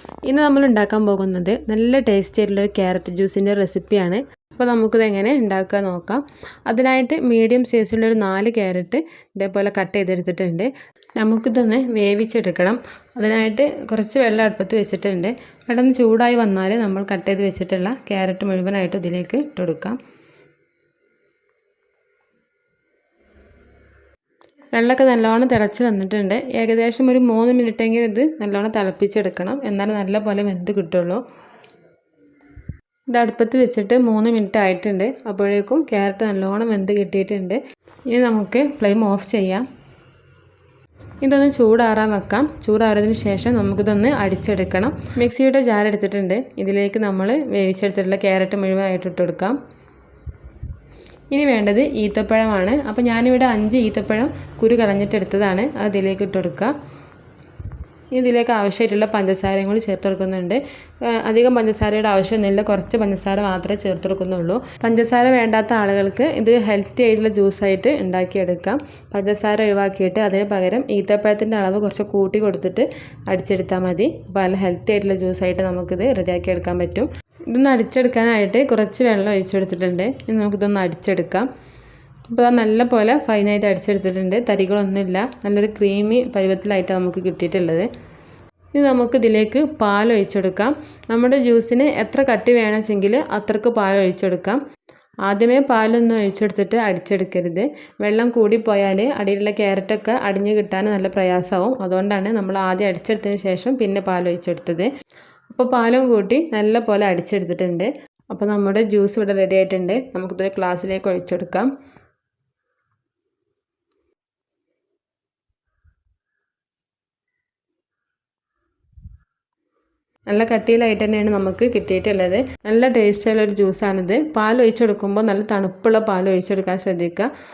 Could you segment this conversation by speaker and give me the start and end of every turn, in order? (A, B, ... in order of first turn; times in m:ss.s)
0:00.2-0:20.0 A
0:24.7-0:31.2 A
0:33.1-0:39.6 A
0:41.2-0:49.6 A
0:51.3-0:56.7 A
0:58.1-1:21.4 A
1:22.3-1:27.9 A
1:28.7-1:34.6 A
1:35.2-1:44.9 A
1:45.5-1:51.7 A
2:00.3-2:07.3 A